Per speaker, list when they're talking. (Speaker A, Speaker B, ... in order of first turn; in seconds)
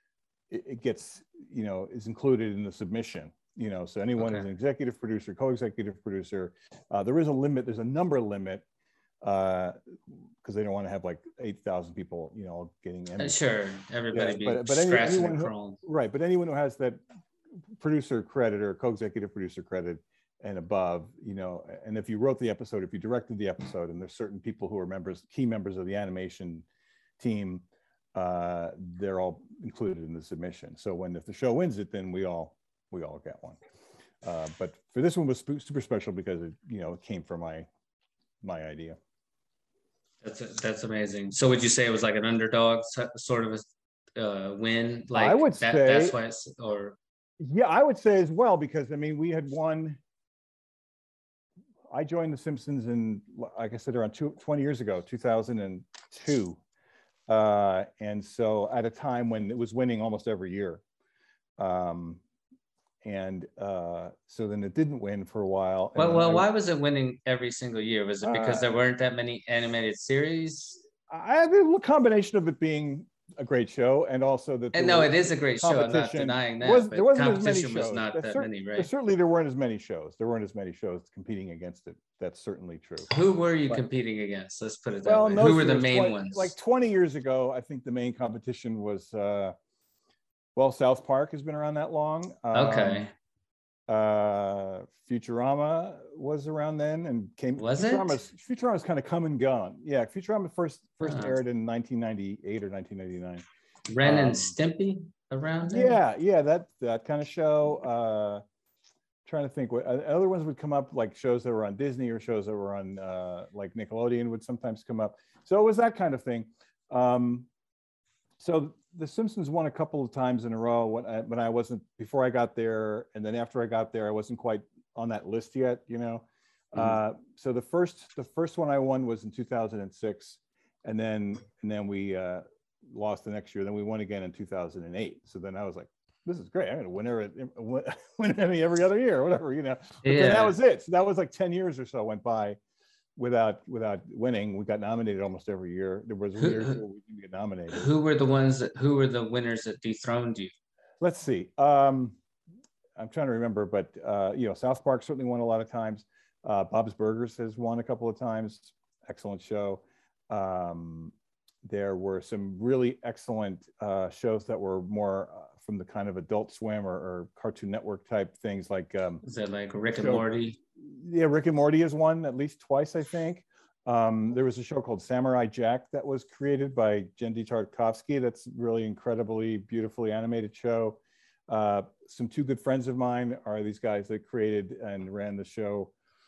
Speaker A: 0.5-8.6, 9.2-9.8, 10.4-13.4, 14.1-17.0, 17.8-26.7, 27.2-33.6, 34.2-37.7, 38.4-39.0, 45.1-46.1, 47.4-50.0, 51.9-56.6, 57.3-60.8, 61.6-62.2, 63.0-66.5, 68.2-68.7, 71.1-83.1, 85.0-89.5, 90.6-93.0, 93.9-103.5, 104.0-104.5, 105.7-108.4, 109.2-117.5, 118.4-142.6, 143.2-147.9, 151.0-152.2, 153.0-169.2, 169.9-170.2, 170.8-185.9
Speaker B: 4.2-4.5, 13.2-15.8, 40.2-47.0, 66.0-70.8, 74.7-78.9, 83.1-86.5, 92.5-93.1, 97.6-98.2, 101.0-101.4, 103.9-106.0, 140.0-140.6, 146.4-146.8, 147.7-150.5, 169.2-170.6